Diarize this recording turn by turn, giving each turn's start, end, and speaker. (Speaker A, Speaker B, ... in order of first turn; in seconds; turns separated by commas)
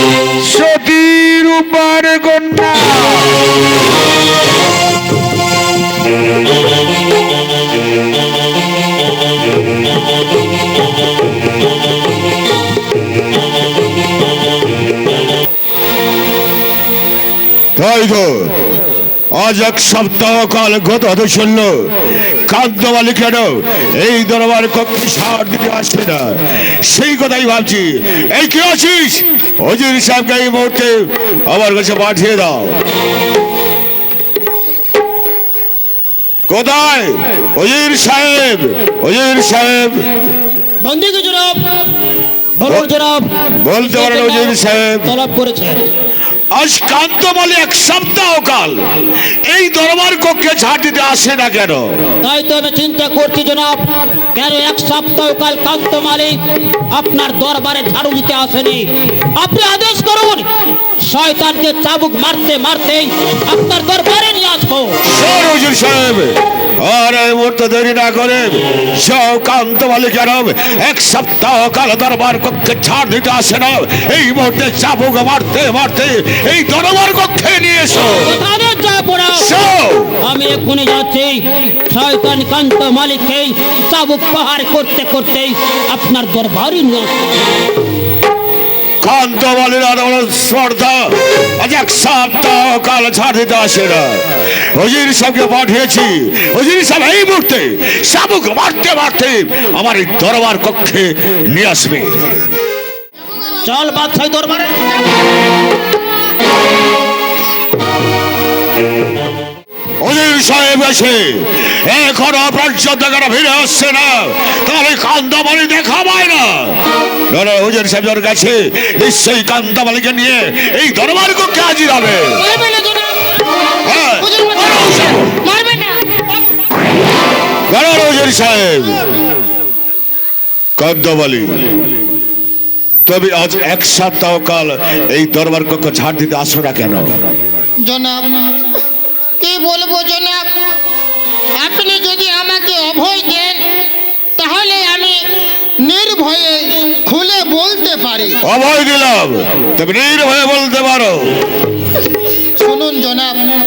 Speaker A: 0.4-3.5, Speaker A: 17.8-18.8, Speaker A: 19.3-32.8, Speaker A: 36.5-40.1, Speaker B: 40.8-41.6, Speaker B: 42.6-45.9, Speaker A: 43.6-45.1, Speaker A: 46.5-52.1, Speaker B: 52.2-65.0, Speaker A: 65.0-78.4, Speaker B: 78.2-79.5, Speaker A: 79.3-80.2, Speaker B: 80.2-87.2, Speaker A: 89.0-102.3, Speaker B: 103.6-105.0, Speaker A: 110.0-116.8, Speaker A: 117.3-122.4, Speaker C: 122.3-123.5, Speaker A: 123.9-124.9, Speaker C: 124.2-126.2, Speaker A: 127.7-129.1, Speaker A: 130.8-131.8, Speaker A: 133.1-137.2, Speaker C: 137.8-138.3, Speaker C: 139.4-140.4, Speaker C: 141.6-143.7, Speaker C: 144.4-145.2, Speaker C: 145.8-148.4, Speaker A: 148.4-151.3, Speaker C: 152.6-153.4